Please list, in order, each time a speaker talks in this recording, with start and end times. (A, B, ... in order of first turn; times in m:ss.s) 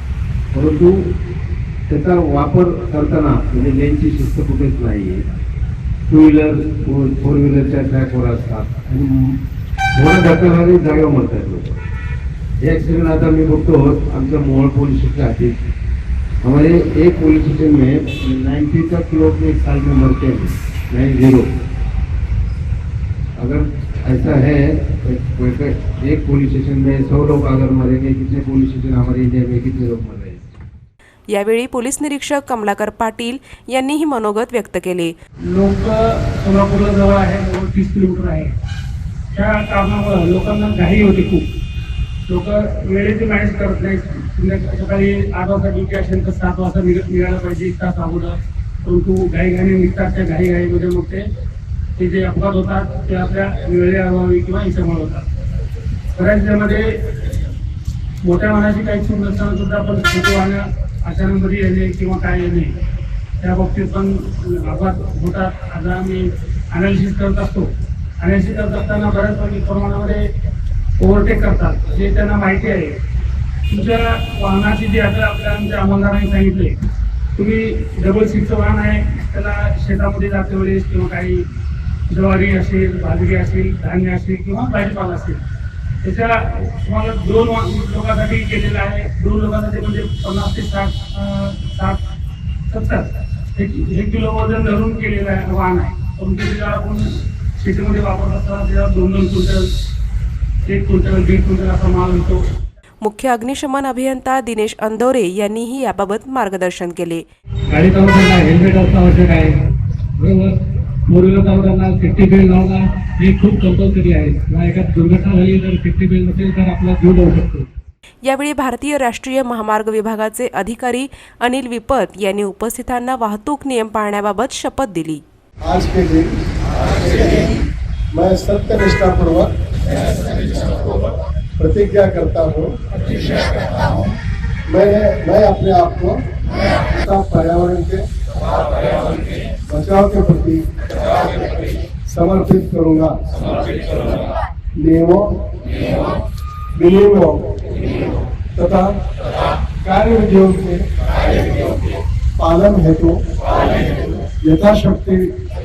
0:00.5-0:01.0 A
0:01.9-0:05.2 A
0:06.1-0:09.4 A
0:09.9-0:11.8 A
0:12.6-0:15.6 A
0:16.4-0:21.5 A
0:23.4-0:30.4 A
0:31.3-0:35.1 B
0:35.5-0:38.5 C
0:39.3-0:41.4 C
0:42.3-0:51.2 C
0:52.0-0:55.2 C
0:56.2-0:57.4 C
0:58.2-1:02.8 C
1:03.4-1:07.7 C
1:08.2-1:10.2 C
1:11.0-1:13.0 C
1:13.7-1:16.7 C
1:17.4-1:21.4 C
1:22.1-1:25.4 C
1:26.0-1:32.0 C
1:32.7-1:39.7 C
1:40.6-1:42.4 C
1:43.0-1:47.2 B
1:47.7-1:49.6 C
1:50.2-1:57.7 C
1:58.2-2:05.2 B
2:05.6-2:06.3 D
2:07.0-2:07.5 D
2:08.1-2:09.5 D
2:11.6-2:12.7 D
2:14.7-2:16.2 D
2:16.9-2:18.0 D
2:19.7-2:20.6 D
2:22.1-2:23.1 D
2:24.8-2:25.2 D
2:26.8-2:27.4 D
2:28.6-2:28.9 D
2:29.8-2:30.8 D
2:32.4-2:33.2 D
2:34.4-2:35.2 D